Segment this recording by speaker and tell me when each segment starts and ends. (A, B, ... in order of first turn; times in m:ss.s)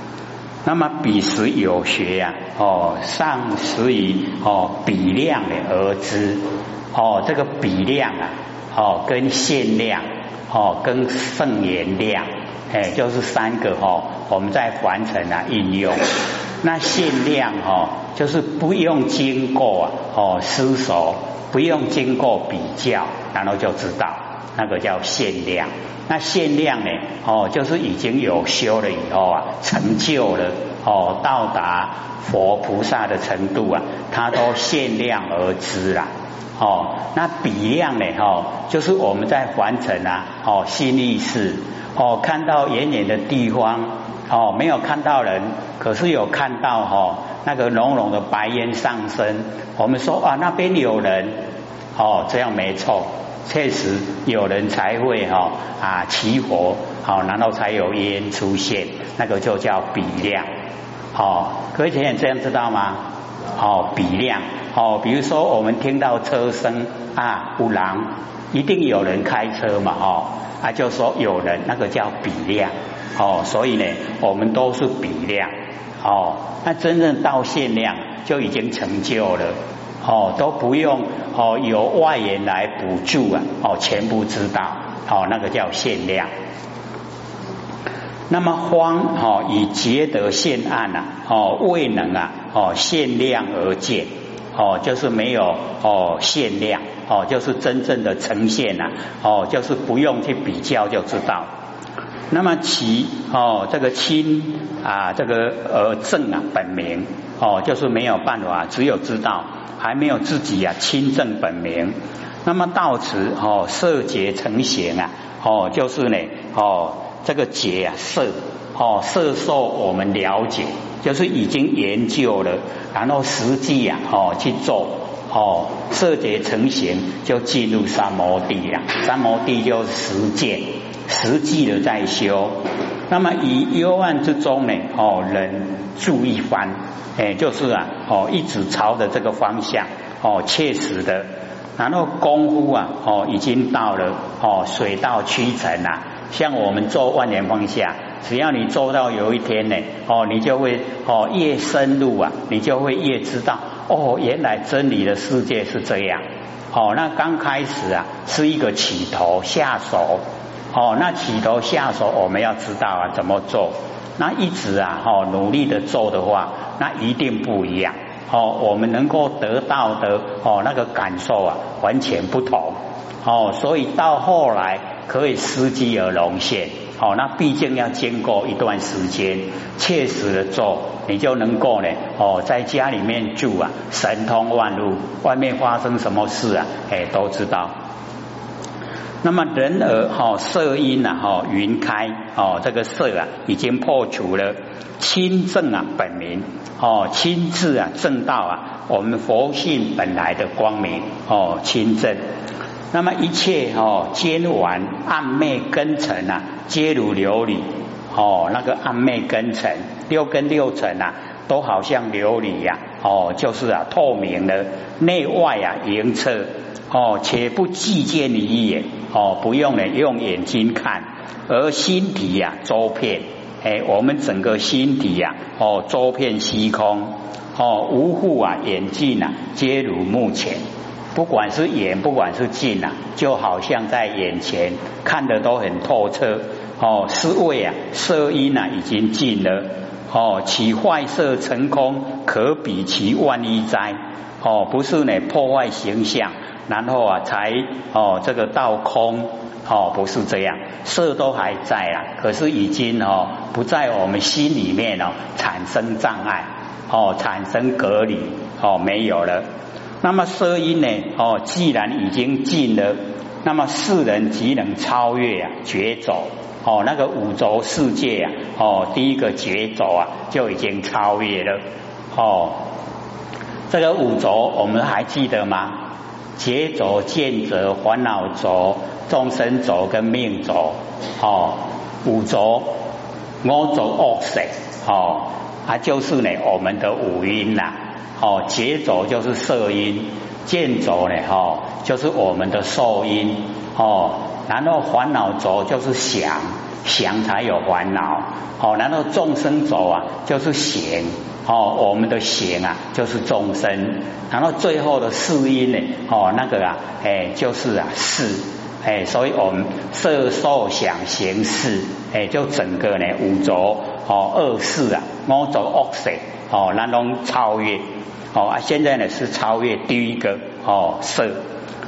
0:00.6-0:16.1 A
0:16.6-0:51.4 A
0:52.0-1:00.5 A
1:01.1-1:03.0 A
1:03.6-1:26.3 A
1:28.3-1:41.5 A
1:42.3-2:12.6 A
2:13.1-3:07.7 A
3:09.2-3:22.2 A
3:22.9-3:50.6 A
3:51.1-4:19.5 A
4:20.0-4:31.6 A
4:32.1-4:32.6 A
4:33.7-4:35.8 A
4:36.4-4:42.8 A
4:43.4-5:21.4 A